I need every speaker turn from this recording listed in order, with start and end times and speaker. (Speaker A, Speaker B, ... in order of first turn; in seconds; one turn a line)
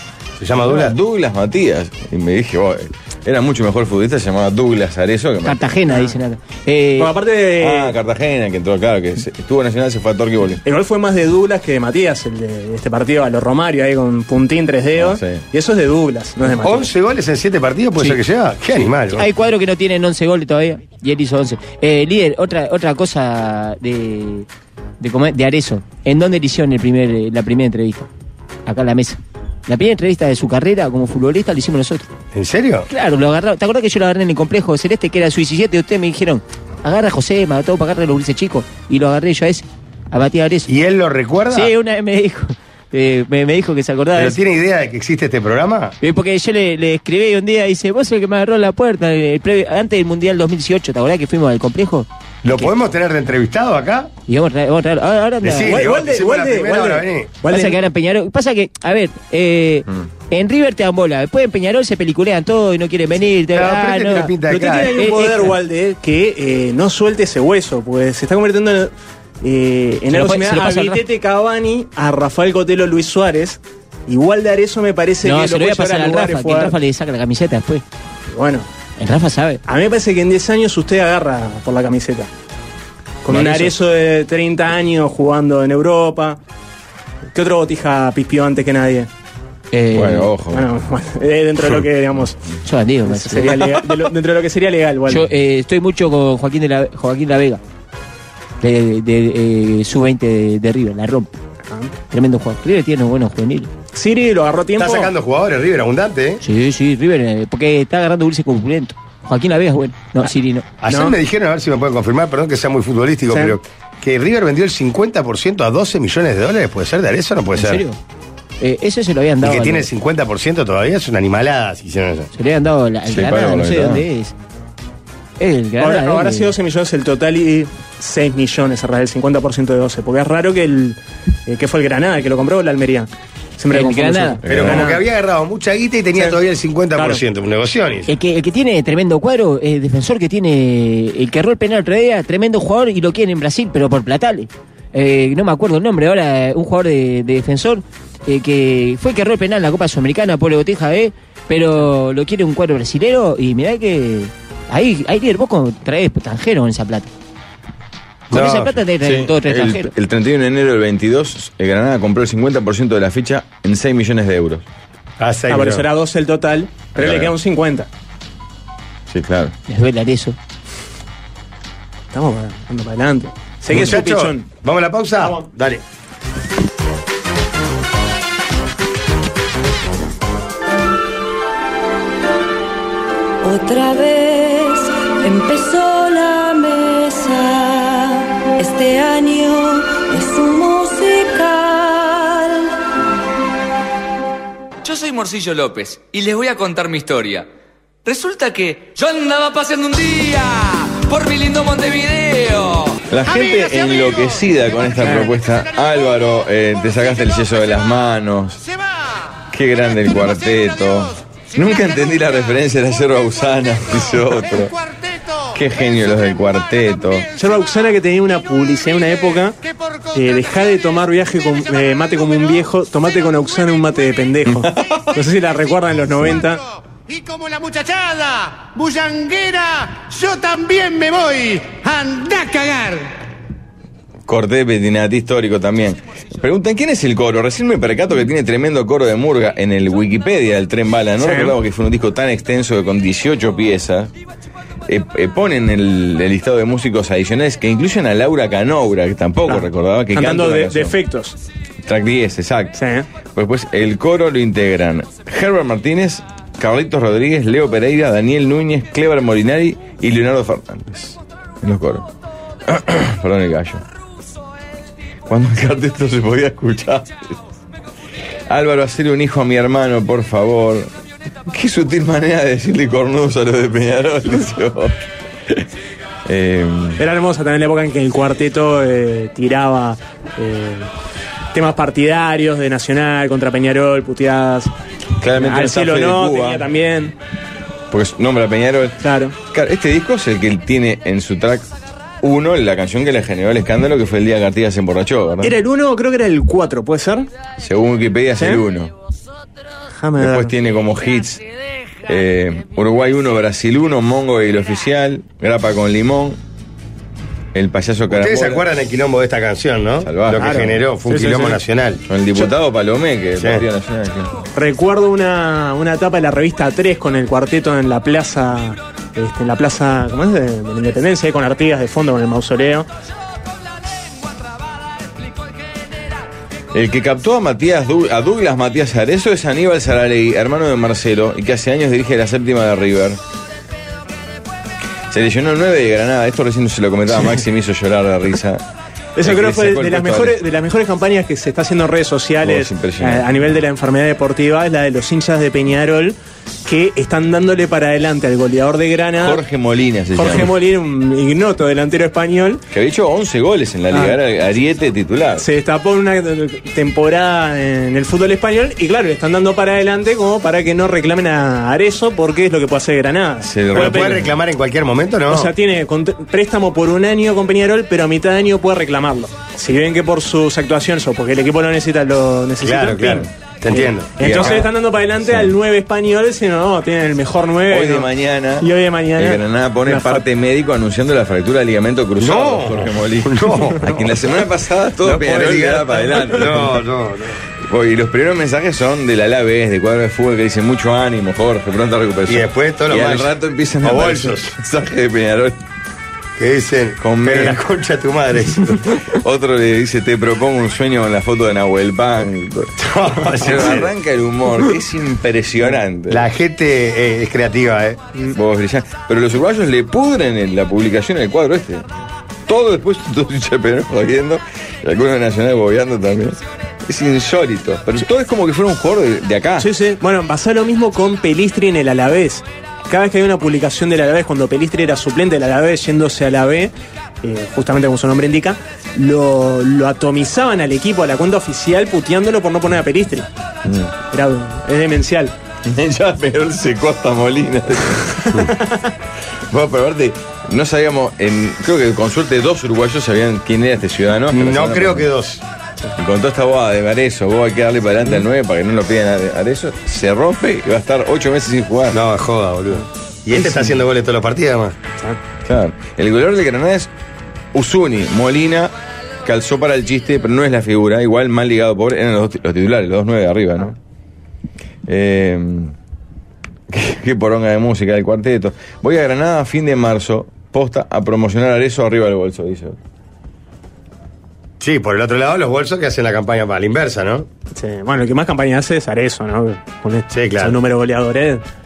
Speaker A: 0.4-0.9
Speaker B: 0.6-5.6
Speaker C: 5.4-7.1
Speaker D: 5.9-6.2
Speaker D: 7.0-8.0
Speaker B: 7.6-10.6
Speaker D: 10.6-16.9
Speaker B: 15.0-15.4
Speaker A: 16.5-19.3
Speaker C: 19.1-24.5
Speaker C: 25.0-28.1
Speaker C: 28.6-32.0
Speaker A: 32.3-32.9
Speaker C: 32.9-40.8
Speaker A: 40.7-41.7
Speaker C: 41.5-44.4
Speaker A: 44.1-46.0
Speaker C: 46.0-52.7
Speaker A: 52.4-54.1
Speaker C: 54.3-55.9
Speaker A: 55.4-57.4
Speaker D: 55.5-57.8
Speaker C: 57.4-65.5
Speaker A: 63.5-65.0
Speaker D: 64.2-76.8
Speaker C: 70.1-71.0
Speaker C: 75.2-77.8
Speaker D: 78.3-78.7
Speaker C: 79.0-79.6
Speaker D: 79.6-82.3
Speaker D: 83.2-86.4
Speaker C: 83.3-83.7
Speaker D: 87.3-89.1
Speaker C: 89.7-90.3
Speaker B: 89.9-90.7
Speaker D: 90.5-92.4
Speaker C: 92.6-93.7
Speaker D: 93.0-95.3
Speaker C: 95.1-97.6
Speaker C: 98.6-101.4
Speaker C: 102.1-103.7
Speaker D: 103.9-105.1
Speaker A: 104.8-106.4
Speaker C: 106.4-110.7
Speaker A: 110.8-117.8
Speaker D: 110.9-111.2
Speaker D: 113.3-113.6
Speaker C: 117.5-118.0
Speaker C: 118.6-119.9
Speaker A: 119.4-122.3
Speaker C: 122.3-124.3
Speaker B: 123.1-124.0
Speaker C: 125.4-126.5
Speaker D: 125.8-135.0
Speaker C: 133.7-134.8
Speaker A: 134.4-138.1
Speaker D: 136.9-137.2
Speaker C: 138.1-157.1
Speaker A: 158.3-158.8
Speaker C: 158.3-159.9
Speaker B: 159.0-164.6
Speaker A: 165.2-165.9
Speaker D: 165.5-167.9
Speaker B: 166.9-167.3
Speaker B: 169.1-169.5
Speaker C: 169.7-170.3
Speaker D: 172.1-174.5
Speaker A: 173.7-175.8
Speaker E: 183.4-192.8
Speaker F: 194.8-197.4
Speaker F: 198.1-202.9
Speaker B: 203.1-208.6
Speaker D: 205.0-205.3
Speaker B: 209.5-214.7
Speaker B: 215.5-217.3
Speaker D: 217.4-219.6
Speaker D: 220.1-226.6
Speaker B: 224.5-225.0
Speaker G: 227.1-233.1
Speaker B: 234.3-244.1
Speaker D: 241.2-241.6
Speaker B: 244.9-250.9
Speaker D: 249.5-251.4
Speaker B: 251.8-252.8
Speaker D: 252.7-253.1
Speaker B: 253.3-262.1
Speaker B: 262.6-263.8
Speaker B: 265.3-267.4
Speaker B: 268.5-270.9
Speaker B: 271.5-275.6
Speaker B: 276.2-277.0
Speaker D: 277.0-280.9
Speaker D: 281.5-284.7
Speaker B: 285.2-286.7
Speaker D: 285.4-287.1
Speaker B: 287.9-289.0
Speaker D: 289.0-289.3
Speaker B: 289.5-291.7
Speaker B: 292.2-295.6
Speaker D: 295.4-297.3
Speaker B: 297.6-298.9
Speaker D: 298.4-298.6
Speaker D: 299.9-300.5
Speaker B: 300.2-301.4
Speaker B: 302.1-306.4
Speaker B: 307.5-308.6
Speaker A: 308.1-312.0
Speaker B: 310.0-310.8
Speaker D: 310.4-311.6
Speaker B: 312.1-314.4
Speaker A: 313.4-313.6
Speaker D: 314.5-322.9
Speaker B: 326.7-333.2
Speaker B: 335.1-338.6
Speaker D: 339.1-349.4
Speaker B: 339.2-340.4
Speaker B: 342.4-343.3
Speaker B: 349.2-350.5
Speaker D: 350.1-352.6
Speaker B: 352.7-355.4
Speaker D: 353.9-354.1
Speaker D: 355.4-364.1
Speaker B: 363.4-364.3
Speaker A: 363.7-365.5
Speaker D: 365.3-380.2
Speaker A: 372.6-374.6
Speaker B: 374.2-374.7
Speaker B: 375.2-375.5
Speaker B: 377.7-386.8
Speaker A: 382.2-384.3
Speaker A: 385.0-387.4
Speaker B: 387.6-395.6
Speaker A: 392.2-394.5
Speaker A: 396.4-398.9
Speaker B: 397.0-397.6
Speaker B: 399.0-402.7
Speaker A: 402.8-403.9
Speaker B: 403.3-406.2
Speaker A: 406.1-408.1
Speaker B: 408.3-411.9
Speaker B: 412.5-419.7
Speaker D: 419.6-433.3
Speaker B: 433.6-433.9
Speaker D: 434.1-435.3
Speaker B: 435.6-438.5
Speaker D: 438.2-438.7
Speaker B: 439.5-445.1
Speaker A: 444.3-445.4
Speaker B: 446.0-452.0
Speaker A: 451.9-454.8
Speaker D: 453.3-453.7
Speaker B: 455.4-456.9
Speaker B: 457.5-463.7
Speaker B: 464.9-465.7
Speaker B: 466.7-472.8
Speaker A: 474.6-477.3
Speaker D: 477.5-481.4
Speaker A: 480.1-480.6